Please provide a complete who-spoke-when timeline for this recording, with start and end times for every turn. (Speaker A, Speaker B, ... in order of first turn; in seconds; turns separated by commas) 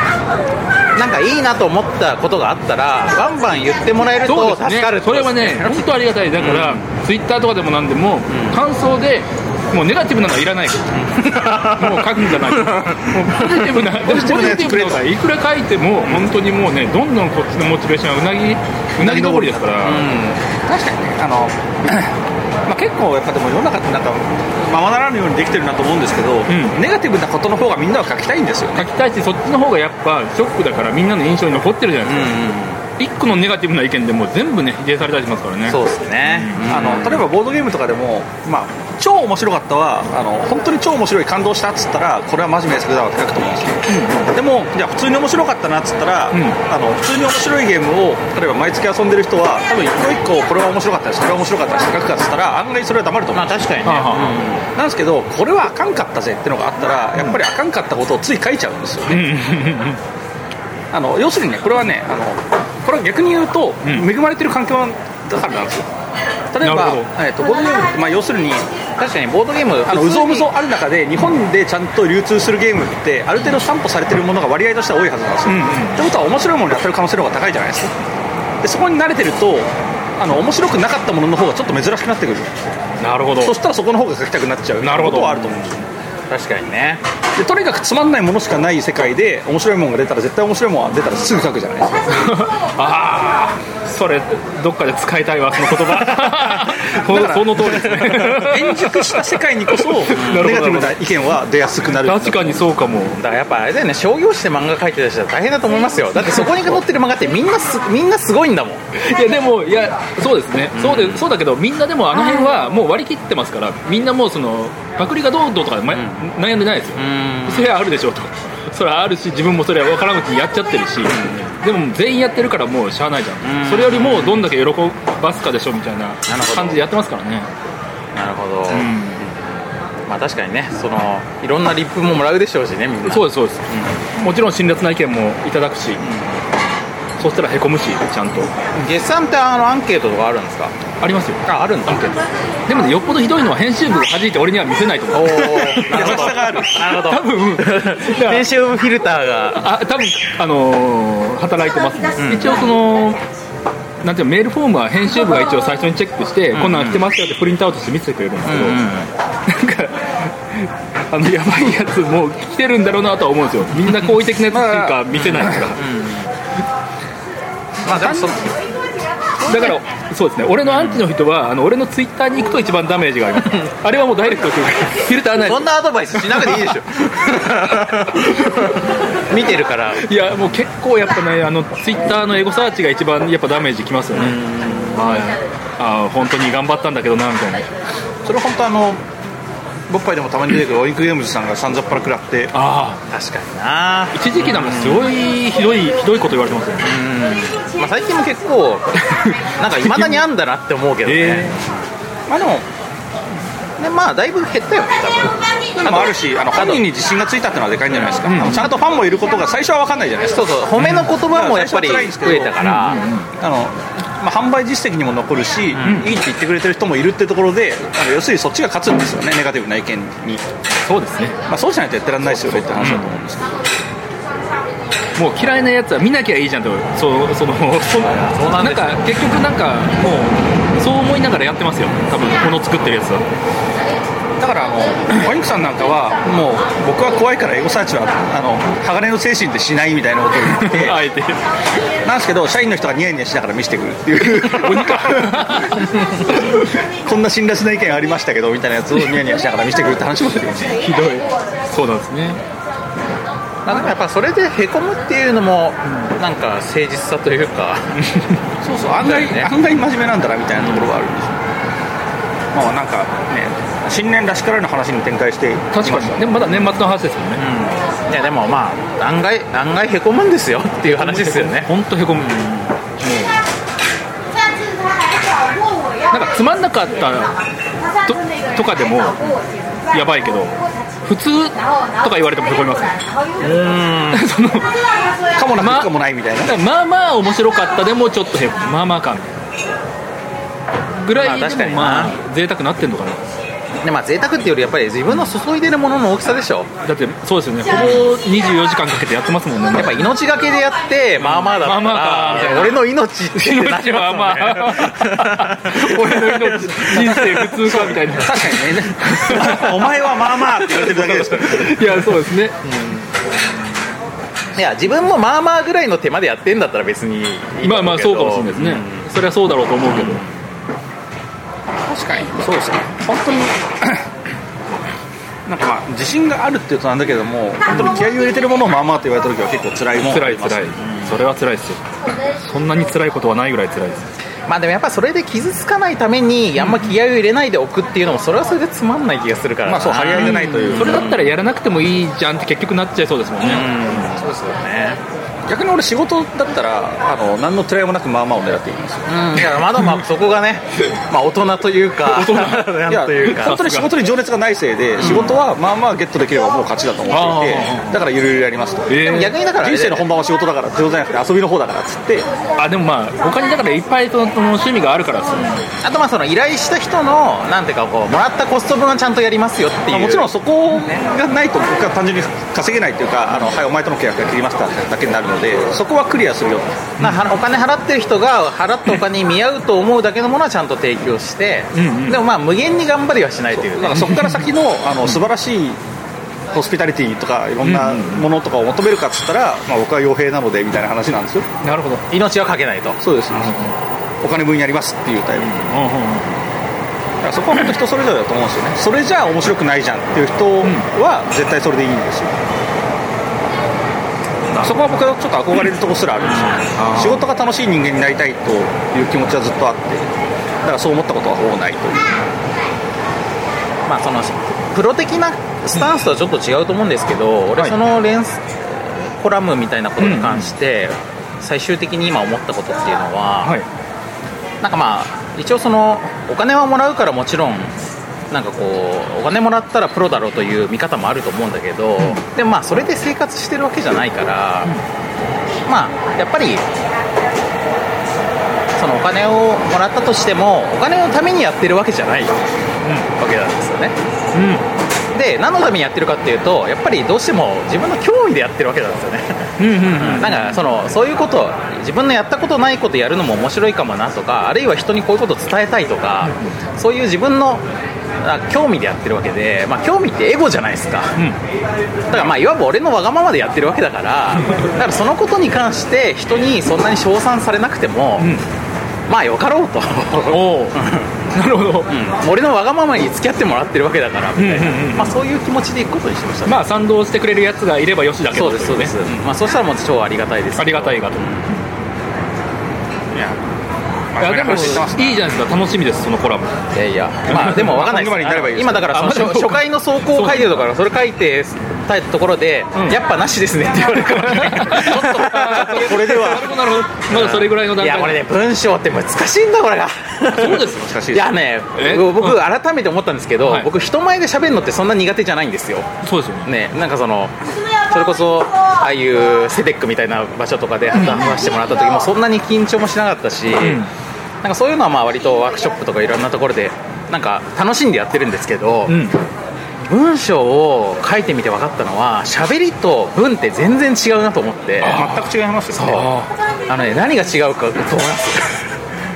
Speaker A: 0.9-6.8, Speaker B: 4.2-10.9, Speaker A: 8.3-8.6, Speaker A: 10.9-13.8, Speaker B: 11.6-20.1, Speaker C: 14.0-15.0, Speaker A: 16.0-16.3, Speaker C: 19.0-19.7, Speaker A: 19.8-20.4, Speaker C: 20.6-28.9, Speaker B: 26.5-26.8, Speaker B: 28.8-36.7, Speaker A: 32.0-32.8, Speaker A: 35.7-37.2, Speaker C: 36.7-53.6, Speaker B: 43.9-44.3, Speaker B: 46.3-46.6, Speaker A: 53.3-54.6, Speaker B: 53.8-54.5, Speaker C: 54.7-59.3, Speaker B: 59.1-60.0, Speaker C: 60.9-65.9, Speaker C: 66.5-68.7, Speaker B: 66.6-67.1, Speaker A: 69.0-70.5, Speaker C: 69.9-78.0, Speaker B: 75.5-76.1, Speaker C: 78.6-82.5, Speaker B: 83.0-83.6, Speaker C: 83.4-85.8, Speaker B: 84.8-85.7, Speaker A: 86.3-87.0, Speaker C: 87.4-92.3, Speaker B: 92.1-101.0, Speaker C: 96.1-102.7, Speaker A: 100.2-100.5, Speaker B: 101.9-103.2, Speaker A: 103.1-108.8, Speaker B: 106.2-106.8, Speaker B: 109.0-127.5, Speaker A: 110.7-111.3, Speaker A: 115.9-116.3, Speaker A: 117.0-117.7, Speaker A: 121.0-121.5, Speaker A: 123.4-124.5, Speaker A: 126.3-126.9, Speaker A: 128.1-128.9, Speaker B: 128.7-129.3, Speaker A: 130.1-134.0, Speaker B: 133.1-136.0, Speaker A: 136.0-136.4, Speaker B: 137.2-138.5, Speaker A: 138.8-140.8, Speaker B: 141.0-142.1, Speaker A: 141.4-142.2, Speaker B: 142.7-148.5, Speaker A: 145.1-149.7, Speaker C: 145.9-146.8, Speaker B: 149.5-153.2, Speaker A: 152.2-152.7, Speaker B: 154.0-158.8, Speaker A: 156.5-157.1, Speaker A: 158.4-159.1, Speaker B: 159.5-165.9, Speaker C: 164.5-165.6, Speaker A: 165.1-166.3, Speaker A: 167.8-168.5, Speaker C: 167.9-168.3, Speaker B: 169.4-176.8, Speaker A: 169.5-169.7, Speaker A: 170.6-171.0, Speaker A: 175.4-180.0, Speaker B: 180.0-187.7, Speaker A: 184.1-185.3, Speaker C: 188.2-189.0, Speaker C: 189.9-192.5, Speaker B: 192.5-193.0, Speaker A: 193.1-195.1, Speaker B: 194.1-196.9, Speaker A: 196.8-198.9, Speaker B: 199.1-200.2, Speaker A: 199.6-201.7, Speaker B: 201.1-201.6, Speaker C: 202.3-202.7, Speaker A: 203.8-206.8, Speaker C: 205.8-210.5, Speaker B: 208.2-208.7, Speaker A: 210.2-213.0, Speaker B: 210.8-211.1, Speaker C: 211.3-212.6, Speaker B: 212.6-213.3, Speaker C: 213.4-220.4, Speaker B: 215.8-216.1, Speaker A: 215.8-216.0, Speaker B: 220.8-221.4, Speaker C: 221.5-223.6, Speaker B: 222.3-223.1, Speaker B: 225.2-233.2, Speaker A: 228.0-229.0, Speaker C: 234.4-241.0, Speaker B: 240.6-241.4, Speaker C: 242.0-245.6, Speaker B: 244.2-246.7, Speaker C: 246.5-250.8, Speaker B: 250.7-252.4, Speaker A: 253.7-258.0, Speaker B: 258.0-258.4, Speaker C: 258.6-261.4, Speaker A: 259.0-259.5, Speaker C: 262.5-266.5, Speaker B: 265.7-267.4, Speaker A: 267.4-271.7, Speaker B: 270.8-273.4, Speaker B: 276.1-277.4, Speaker B: 278.0-283.1, Speaker A: 283.4-284.3, Speaker B: 284.1-284.8, Speaker C: 285.4-286.5, Speaker B: 285.6-289.3, Speaker B: 291.0-293.2, Speaker A: 291.2-292.2, Speaker A: 293.8-296.7, Speaker B: 296.8-300.1, Speaker A: 297.8-298.1, Speaker A: 299.7-307.5, Speaker B: 301.2-309.8, Speaker C: 307.6-311.7, Speaker A: 310.5-311.7, Speaker B: 311.4-312.8, Speaker A: 314.6-319.1, Speaker B: 317.6-320.2, Speaker A: 319.8-320.3, Speaker C: 321.9-324.1, Speaker C: 325.5-330.7, Speaker B: 327.7-328.0, Speaker B: 330.0-331.8, Speaker A: 330.8-331.2, Speaker B: 332.3-334.1, Speaker A: 334.5-341.4, Speaker C: 339.7-341.1, Speaker B: 340.2-344.1, Speaker A: 343.4-345.0, Speaker C: 345.5-349.1, Speaker A: 349.1-353.6, Speaker B: 352.1-353.9, Speaker C: 352.9-358.9, Speaker A: 355.0-355.4, Speaker B: 357.1-358.0, Speaker B: 358.9-359.3, Speaker A: 359.0-360.1, Speaker C: 359.6-362.3, Speaker B: 362.6-365.7, Speaker A: 365.8-370.3, Speaker C: 369.9-376.8, Speaker B: 377.0-377.3, Speaker A: 377.0-384.0, Speaker B: 381.7-382.2, Speaker C: 383.5-385.8, Speaker B: 383.9-384.4, Speaker C: 386.5-391.5, Speaker B: 387.6-388.3, Speaker B: 391.6-392.1, Speaker A: 392.1-393.0, Speaker C: 393.0-393.7, Speaker B: 393.3-393.7, Speaker C: 394.2-395.7, Speaker B: 395.4-396.3, Speaker C: 397.2-402.4, Speaker C: 404.6-410.1, Speaker B: 406.7-407.2, Speaker C: 410.6-412.2, Speaker A: 413.9-423.6, Speaker B: 420.0-420.5, Speaker A: 424.6-434.7, Speaker A: 435.7-436.6, Speaker A: 438.8-442.4, Speaker A: 443.1-443.9, Speaker B: 444.3-444.6, Speaker A: 445.1-457.6, Speaker B: 449.6-450.6, Speaker B: 456.2-456.5, Speaker A: 458.2-461.2, Speaker A: 462.1-468.3, Speaker B: 464.4-464.7, Speaker B: 468.2-468.4, Speaker A: 469.1-471.1, Speaker B: 470.2-471.9, Speaker A: 471.9-476.6, Speaker B: 474.4-475.2, Speaker B: 476.5-479.0, Speaker A: 478.3-481.4, Speaker B: 480.6-481.6, Speaker C: 483.1-483.4, Speaker C: 484.1-485.2, Speaker B: 484.2-486.5, Speaker A: 486.7-496.1, Speaker B: 487.3-487.9, Speaker C: 487.4-488.9, Speaker B: 488.9-490.6, Speaker B: 493.9-498.2, Speaker C: 494.7-496.5, Speaker A: 497.1-505.9, Speaker B: 500.3-500.9, Speaker C: 500.7-501.3, Speaker B: 501.8-502.4, Speaker B: 503.4-503.7, Speaker B: 506.0-506.5, Speaker A: 506.5-513.8, Speaker B: 510.9-511.3, Speaker B: 513.6-513.9, Speaker A: 514.4-519.0, Speaker B: 518.9-519.2, Speaker A: 519.9-525.0, Speaker B: 524.8-526.3, Speaker C: 524.8-526.0, Speaker A: 525.7-526.1, Speaker A: 526.7-528.7